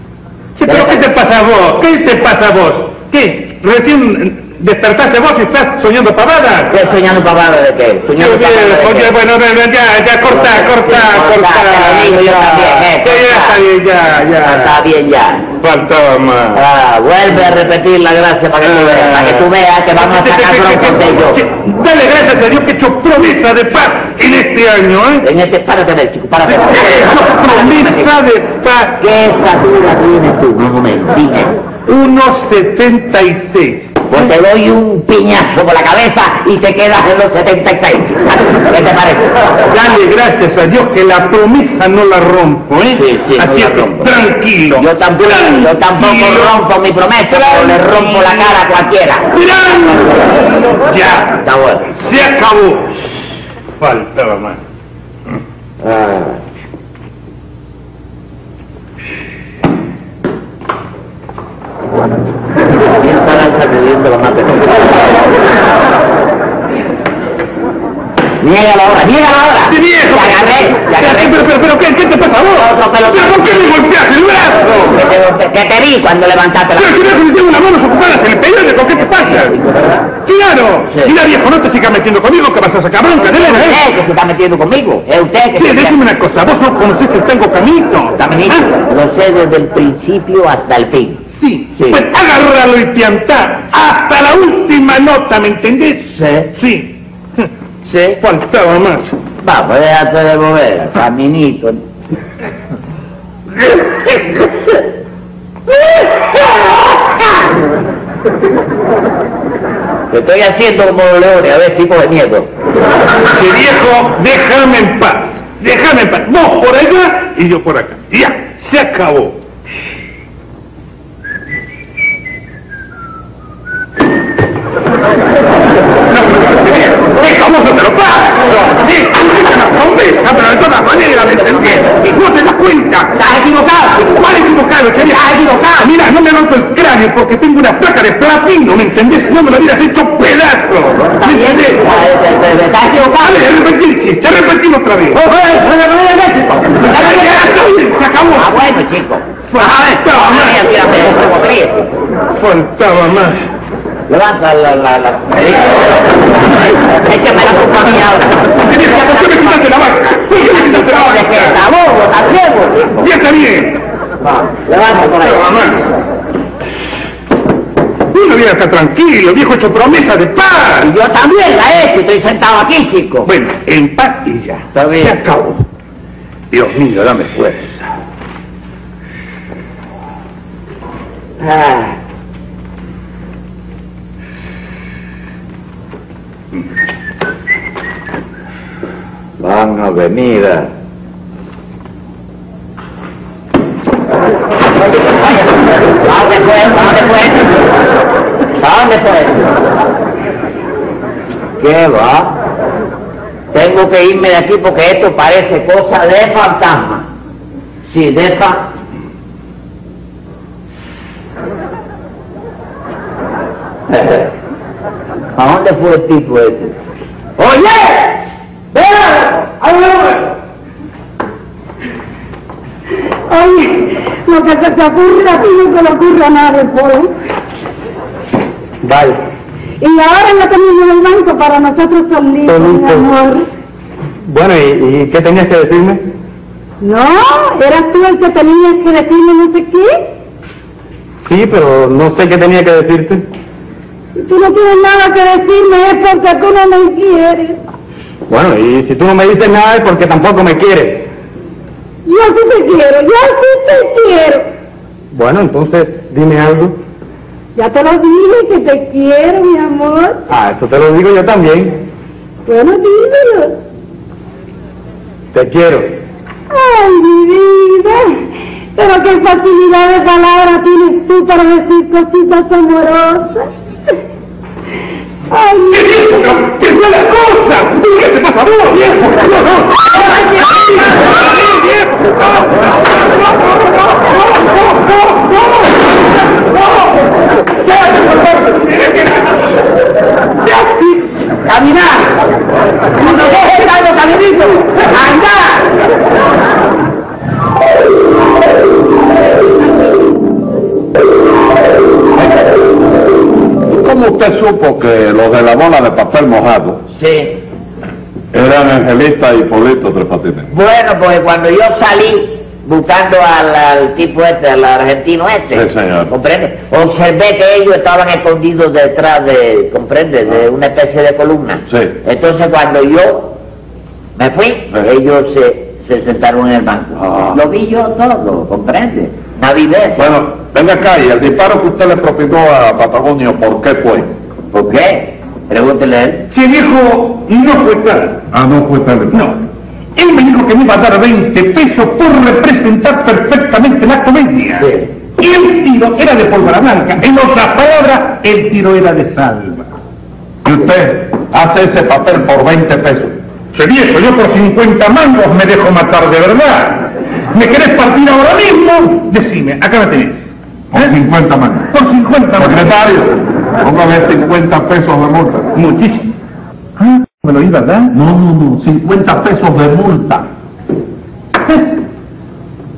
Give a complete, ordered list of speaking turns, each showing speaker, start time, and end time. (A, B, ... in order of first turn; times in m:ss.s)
0:00.6-0:06.7 A
0:00.7-0:01.0 B
0:06.7-0:09.1 B
0:08.1-0:14.8 A
0:10.3-0:13.6 B
0:14.4-0:15.5 B
0:15.6-0:16.6 A
0:16.5-0:21.4 B
0:20.0-0:25.2 A
0:25.2-0:28.1 B
0:26.6-0:29.0 A
0:29.0-0:31.6 B
0:31.9-0:34.0 A
0:34.1-0:39.6 B
0:39.7-0:46.6 A
0:42.9-0:44.1 B
0:44.8-0:49.3 B
0:47.4-0:48.4 A
0:49.3-0:51.4 A
0:51.2-0:51.9 B
0:52.0-0:53.0 A
0:53.8-0:54.6 A
0:55.8-0:56.4 B
1:03.0-1:05.2 B
1:08.4-1:11.5 B
1:09.7-1:15.0 A
1:12.5-1:13.8 B
1:14.8-1:17.2 B
1:16.8-1:19.6 A
1:19.2-1:20.1 B
1:20.2-1:23.8 A
1:23.2-1:26.0 B
1:25.6-1:28.6 A
1:28.2-1:31.2 B
1:31.4-1:37.5 A
1:31.8-1:32.1 B
1:36.2-1:36.5 B
1:37.9-1:38.2 B
1:38.2-1:39.1 A
1:39.4-1:41.8 B
1:50.1-1:52.5 B
1:53.3-1:59.4 A
2:06.1-2:21.9 A
2:13.2-2:13.9 B
2:21.0-2:23.4 B
2:23.0-2:25.2 A
2:26.8-2:28.5 A
2:26.8-2:27.5 B
2:28.3-2:31.9 B
2:29.5-2:30.6 A
2:32.4-2:33.4 A
2:34.1-2:36.1 B
2:36.7-2:39.2 B
2:38.6-2:41.6 A
2:40.4-2:43.1 B
2:43.0-2:43.8 A
2:44.2-2:45.9 B
2:45.1-2:45.8 A
2:48.1-2:50.9 A
2:50.8-2:53.3 B
2:53.3-2:55.6 A
2:54.8-2:55.2 B
2:56.5-2:57.8 A
3:01.4-3:02.0 B
3:09.4-3:10.7 B
3:14.8-3:17.6 B
3:18.6-3:19.6 B
3:21.6-3:22.4 B
3:23.5-3:27.1 B
3:27.9-3:28.7 B
3:33.9-3:34.3 B
3:35.4-3:36.8 B
3:43.3-3:47.1 C
3:48.8-3:49.2 D
3:49.8-3:53.5 C
3:52.5-3:53.1 D
3:54.2-3:56.0 D
3:56.8-4:00.1 C
4:01.2-4:03.3 D
4:04.1-4:07.6 C
4:08.3-4:11.1 D
4:12.0-4:14.5 C
4:15.1-4:16.8 D
4:17.6-4:20.3 C
4:20.3-4:21.8 D
4:22.4-4:23.6 C
4:25.3-4:25.9 D
4:26.5-4:28.2 C
4:28.8-4:33.5 C
4:35.3-4:36.2 C
4:35.7-4:45.4 A
4:46.4-4:46.9 A
4:47.7-4:49.4 A
4:50.5-4:52.1 C
4:53.0-4:55.6 C
5:03.7-5:06.8 E
5:06.9-5:07.4 B
5:08.3-5:10.5 E
5:10.5-5:23.4 B
5:15.5-5:16.1 E
5:21.7-5:22.0 E
5:24.2-5:30.2 B
5:26.9-5:27.4 E
5:30.0-5:34.1 E
5:34.5-5:36.3 B
5:36.3-5:38.3 A
5:38.3-5:39.3 E
5:39.1-5:39.4 A
5:40.0-5:49.7 A
5:44.6-5:44.9 B
5:50.4-5:53.2 E
5:53.5-6:00.9 A
6:00.7-6:01.7 E
6:01.7-6:02.7 A
6:02.4-6:05.5 E
6:05.6-6:06.1 A
6:06.8-6:07.9 A
6:07.9-6:10.3 E